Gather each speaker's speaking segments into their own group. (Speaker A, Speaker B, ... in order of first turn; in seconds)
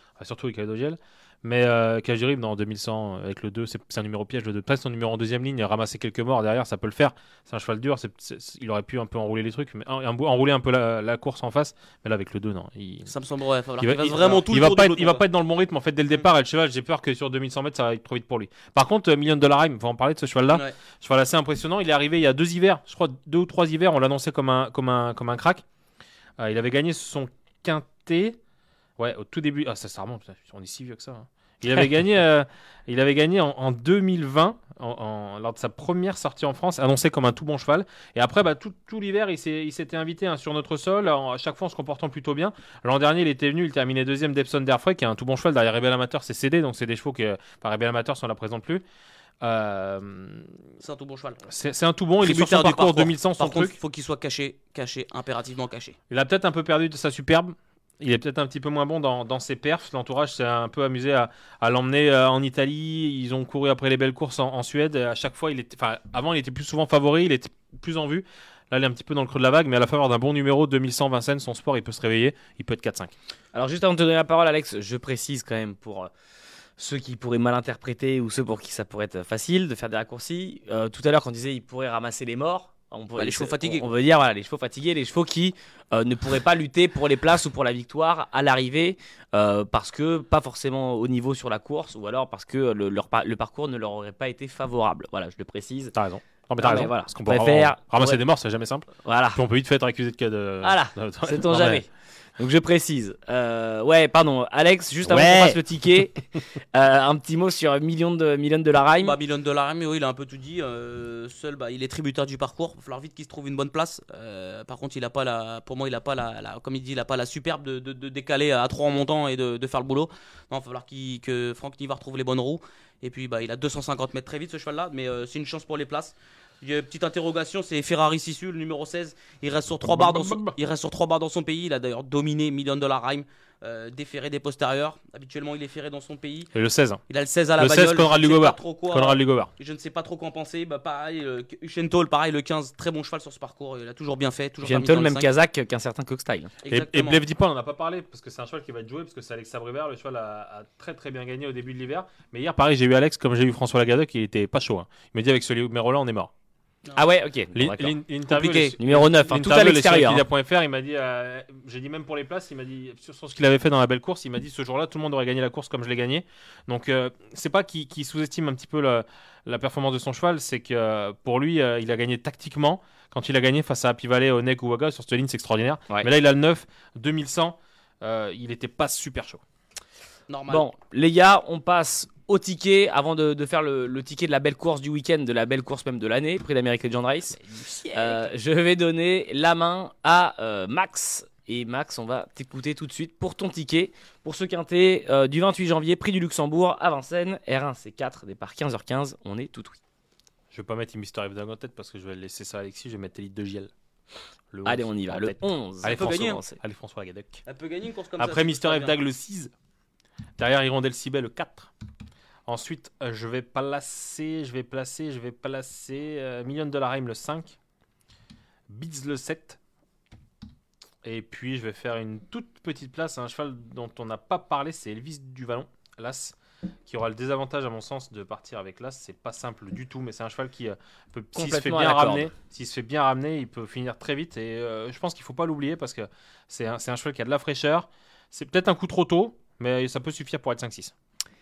Speaker A: 0.2-13.1, 13.8-25.6, 26.4-28.4, 29.0-48.8, 49.4-50.5, 51.5-53.7, 56.1-73.1, 96.0-101.8, 105.0-105.6, 129.9-130.5, 136.5-137.0, 137.6-139.5, 146.7-156.3, 157.5-179.4, 200.5-203.7, 204.5-207.4, 208.2-209.5, 210.4-211.7, 212.5-217.6, 218.7-219.6, 221.0-240.9
Speaker B: 13.1-15.2, 50.8-51.4, 52.2-56.0, 83.2-83.8, 109.0-136.5, 137.1-145.3, 146.6-147.2, 158.3-158.7, 180.3-180.7, 187.7-188.2, 205.8-206.4, 207.5-209.0
Speaker C: 73.5-76.1, 76.8-95.9, 96.6-98.2, 99.0-99.4, 100.6-101.9, 102.4-106.2, 106.7-109.2, 144.6-146.5, 156.9-160.2, 180.5-187.4, 187.9-199.8, 204.6-206.6, 231.3-232.3